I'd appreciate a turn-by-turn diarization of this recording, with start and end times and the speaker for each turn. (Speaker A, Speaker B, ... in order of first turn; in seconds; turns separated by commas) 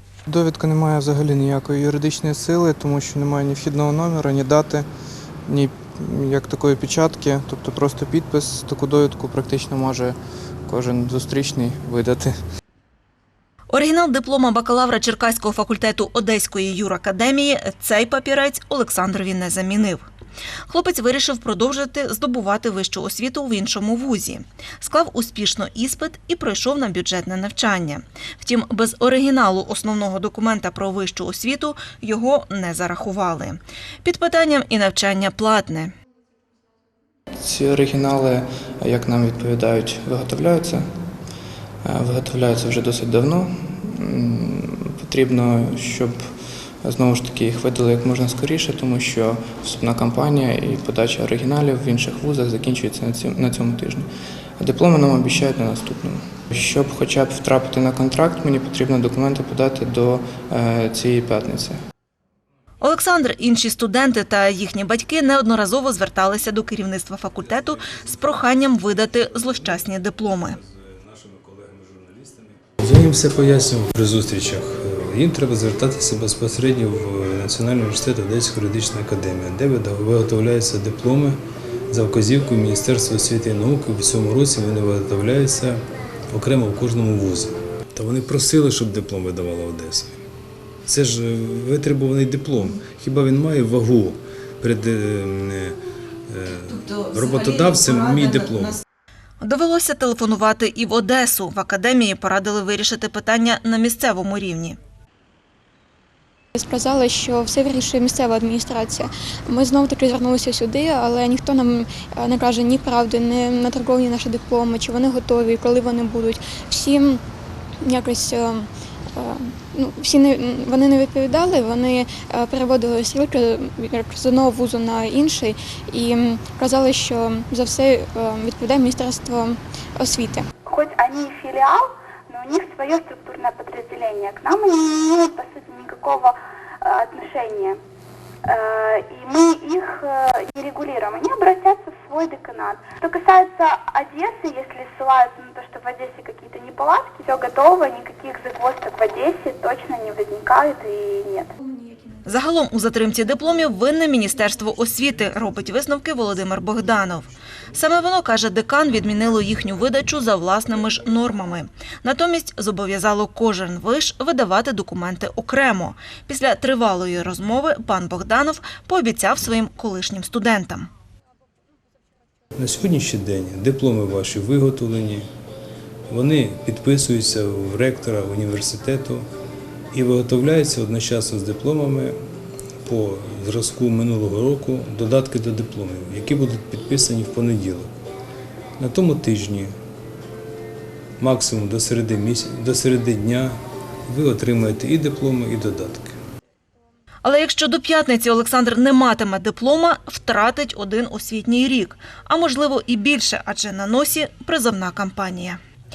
Speaker A: 0.3-4.9, Speaker A: 5.5-12.3, Speaker B: 13.7-20.1, Speaker B: 20.7-35.9, Speaker A: 37.4-40.9, Speaker A: 41.8-46.2, Speaker A: 46.8-54.1, Speaker A: 54.6-61.8, Speaker B: 62.8-70.6, Speaker C: 67.4-81.4, Speaker C: 81.9-90.2, Speaker C: 90.9-98.8, Speaker B: 99.4-104.8, Speaker D: 106.5-117.2, Speaker D: 117.8-130.5, Speaker E: 130.7-137.8, Speaker E: 138.4-151.5, Speaker B: 152.2-170.9, Speaker C: 172.6-175.3, Speaker C: 176.1-179.3, Speaker C: 179.9-182.2, Speaker C: 182.8-188.0, Speaker C: 188.8-189.7, Speaker C: 191.2-196.2, Speaker B: 197.2-205.6